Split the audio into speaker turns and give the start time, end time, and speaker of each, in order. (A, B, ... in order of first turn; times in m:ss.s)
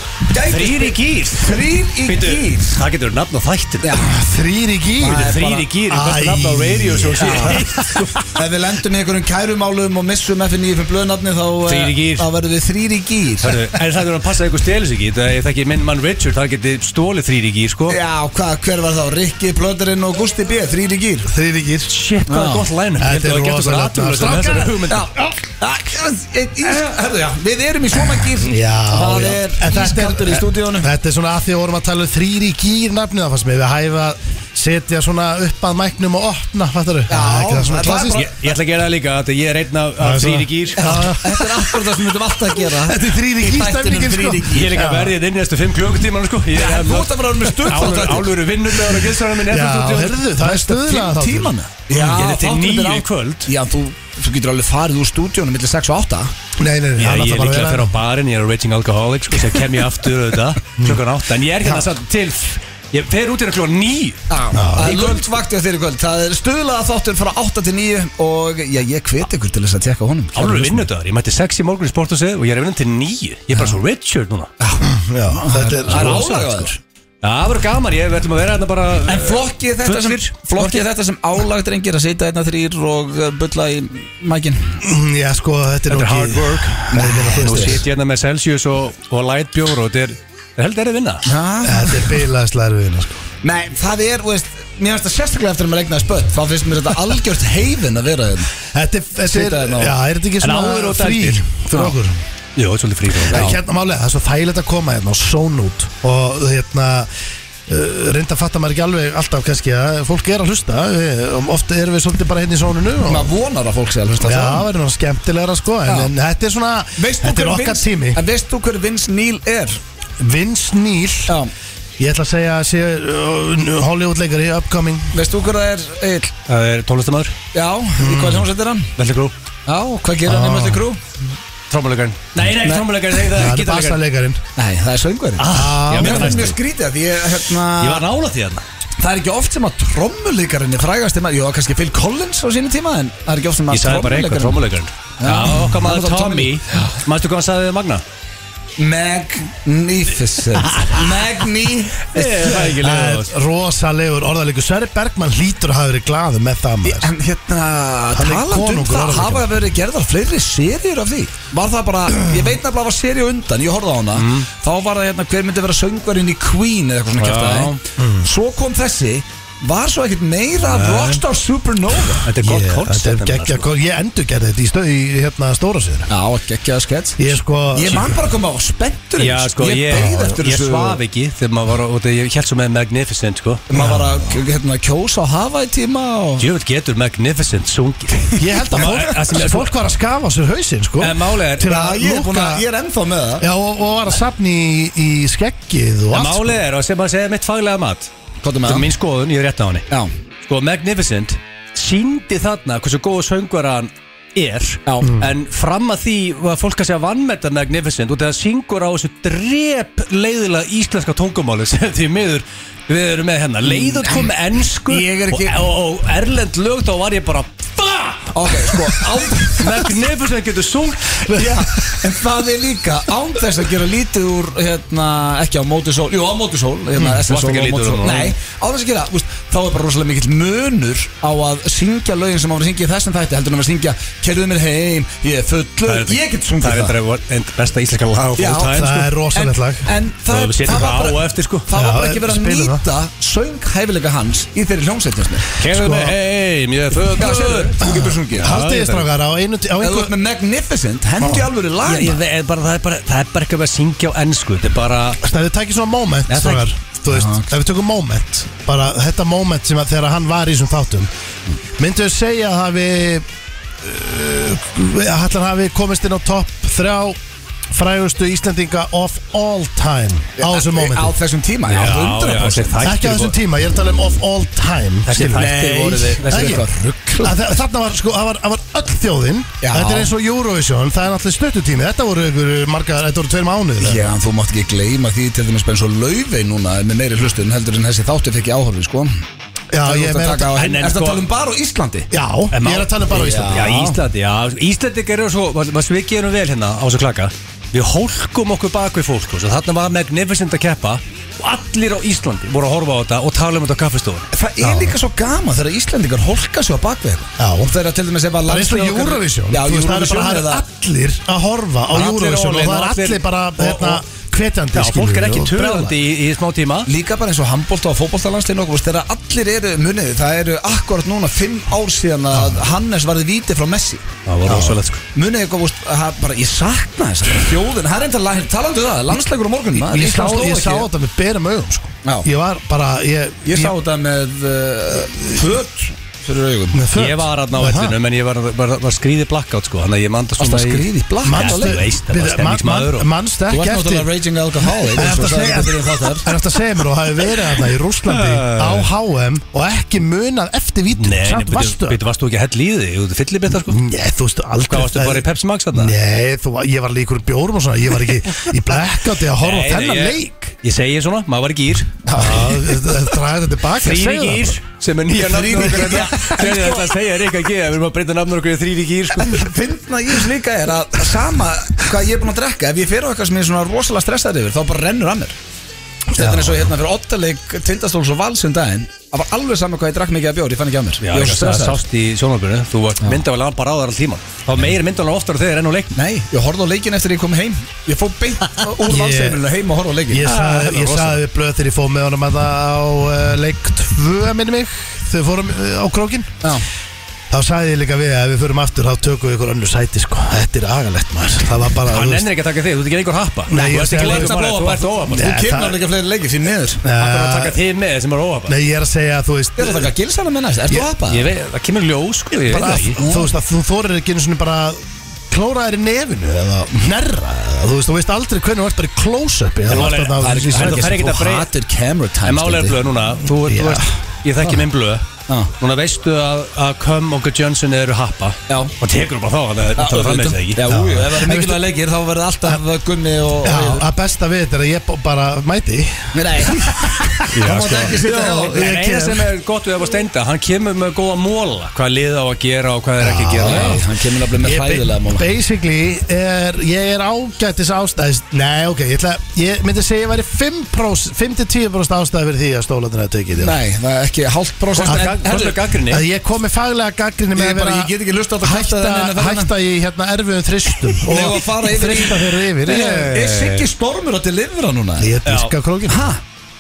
0:00.3-0:02.8 A
0:00.4-0:03.9 B
0:03.8-0:04.1 A
0:04.0-0:05.3 C
0:05.0-0:05.6 A
0:05.1-0:08.3 B
0:05.9-0:08.1 C
0:07.2-0:07.6 A
0:08.3-0:13.6 A
0:11.7-0:12.3 B
0:13.4-0:18.0 B
0:17.9-0:21.3 A
0:21.2-0:21.9 C
0:21.9-0:25.1 B
0:22.3-0:22.7 A
0:23.0-0:25.4 C
0:24.9-0:30.9 A
0:28.2-0:38.3 C
0:37.1-0:38.4 A
0:38.2-0:41.1 B
0:40.0-0:41.5 C
0:40.8-0:44.7 A
0:42.8-0:45.1 C
0:44.5-0:50.2 B
0:46.5-0:48.4 A
0:49.5-0:51.5 C
0:50.4-0:56.3 A
0:51.9-0:53.5 B
0:56.6-0:57.9 C
0:57.0-1:04.2 B
1:04.3-1:10.8 A
1:04.5-1:05.1 C
1:04.8-1:05.2 B
1:10.3-1:14.5 B
1:14.6-1:16.7 A
1:14.8-1:16.6 C
1:15.9-1:20.9 B
1:19.1-1:24.8 A
1:24.8-1:27.8 C
1:25.9-1:31.2 B
1:26.9-1:27.8 A
1:31.2-1:32.2 A
1:31.6-1:33.2 C
1:33.4-1:38.5 A
1:38.7-1:42.2 C
1:39.3-1:39.9 A
1:40.4-1:41.6 B
1:42.6-1:43.6 B
1:43.3-1:47.1 C
1:47.7-1:53.3 C
1:53.1-1:54.7 A
1:54.2-1:58.2 C
1:55.8-1:56.1 A
1:57.0-1:59.8 A
2:00.2-2:01.4 C
2:02.0-2:05.2 C
2:05.1-2:06.3 A
2:06.5-2:07.3 B
2:07.5-2:08.9 A
2:08.0-2:08.5 C
2:09.0-2:09.3 B
2:09.7-2:11.0 A
2:10.2-2:10.8 C
2:11.7-2:14.0 B
2:12.4-2:12.9 A
2:13.3-2:14.4 C
2:14.6-2:18.0 A
2:15.4-2:16.6 B
2:15.5-2:16.5 C
2:17.8-2:18.6 B
2:19.0-2:24.6 A
2:23.7-2:28.0 B
2:25.2-2:26.9 A
2:28.8-2:32.7 A
2:30.7-2:31.0 B
2:32.1-2:33.3 B
2:32.7-2:37.1 C
2:36.8-2:52.3 A
2:38.1-2:39.5 C
2:44.2-2:44.5 B
2:47.2-2:47.8 B
2:48.0-2:48.2 C
2:50.7-2:51.2 B
2:52.2-2:53.7 B
2:52.4-2:56.1 C
2:56.1-3:01.0 A
2:57.2-2:58.2 C
2:59.2-3:03.6 B
3:03.7-3:06.5 A
3:03.7-3:04.2 C
3:06.4-3:09.8 B
3:08.4-3:12.6 C
3:11.0-3:11.7 B
3:11.6-3:13.4 A
3:13.4-3:16.6 C
3:16.1-3:18.1 B
3:18.4-3:18.8 A
3:18.6-3:19.9 B
3:20.4-3:38.9 B
3:24.8-3:25.1 A
3:33.7-3:34.2 A
3:34.8-3:35.6 A
3:38.3-3:39.7 A
3:39.5-3:41.5 B
3:41.3-3:57.0 A
3:47.0-3:48.3 B
3:55.9-3:59.1 B
3:58.4-3:58.8 A
3:58.6-3:59.9 C
3:59.3-4:05.5 A
4:00.3-4:01.7 B
4:01.7-4:02.8 C
4:05.6-4:09.1 B
4:05.6-4:06.2 C
4:07.0-4:08.5 A
4:07.8-4:10.1 C
4:09.8-4:12.2 A
4:11.8-4:15.2 B
4:15.2-4:21.1 C
4:16.3-4:16.6 B
4:17.1-4:17.4 A
4:21.8-4:23.2 C
4:23.8-4:27.2 C
4:27.7-4:31.1 C
4:30.4-4:32.8 A
4:31.7-4:33.3 B
4:32.8-4:35.5 C
4:35.1-4:36.7 B
4:35.3-4:37.4 A
4:36.3-4:36.6 C
4:37.2-4:44.1 C
4:39.6-4:40.1 A
4:43.8-4:49.2 A
4:49.7-4:50.5 C
4:49.8-4:52.1 A
4:50.5-4:51.2 B
4:52.1-4:53.7 C
4:52.5-5:04.3 B
4:53.1-4:54.0 A
5:04.3-5:10.6 A
5:04.6-5:04.9 C
5:07.4-5:07.7 C
5:08.5-5:16.0 C
5:11.9-5:12.8 A
5:12.2-5:14.0 B
5:14.7-5:16.9 B
5:16.9-5:30.9 A
5:22.3-5:22.6 C
5:24.2-5:25.0 B
5:29.8-5:33.8 C
5:33.4-5:36.8 A
5:36.7-5:38.0 C
5:36.9-5:43.1 B
5:40.4-5:41.8 A
5:41.2-5:44.1 C
5:43.5-5:46.3 A
5:44.8-5:52.0 C
5:48.1-5:48.9 B
5:51.0-5:53.8 B
5:53.5-6:00.3 C
5:54.7-5:55.9 B
5:59.4-6:02.6 B
6:02.1-6:04.6 C
6:03.8-6:09.5 B
6:05.1-6:06.9 A
6:09.2-6:15.4 A
6:16.1-6:16.7 C
6:16.1-6:21.8 A
6:21.0-6:25.9 B
6:25.9-6:30.2 A
6:28.9-6:29.4 C
6:30.1-6:36.3 C
6:30.2-6:31.2 B
6:37.3-6:42.3 C
6:41.9-6:45.3 B
6:43.5-6:44.4 C
6:43.7-6:46.8 A
6:45.1-6:45.8 C
6:46.8-6:47.6 C
6:47.0-6:48.6 B
6:48.5-6:49.9 C
6:49.6-6:51.3 A
6:51.1-6:53.0 B
6:52.3-7:01.0 C
6:53.0-6:53.3 A
6:59.7-7:01.5 B
6:59.7-7:02.8 A
7:02.2-7:05.0 B
7:03.4-7:03.9 C
7:05.3-7:05.5 A
7:05.6-7:10.6 B
7:08.5-7:08.8 A
7:09.8-7:13.8 A
7:10.6-7:11.7 C
7:13.4-7:17.9 C
7:16.1-7:18.8 A
7:17.3-7:23.8 B
7:18.5-7:19.3 C
7:23.0-7:23.9 C
7:23.4-7:25.2 A
7:24.4-7:33.6 C
7:33.4-7:35.6 A
7:34.8-7:36.0 B
7:34.9-7:35.2 C
7:35.9-7:43.2 C
7:37.4-7:39.5 A
7:41.0-7:45.2 A
7:42.6-7:43.7 B
7:45.0-7:46.1 C
7:45.2-7:45.5 B
7:45.9-7:46.2 A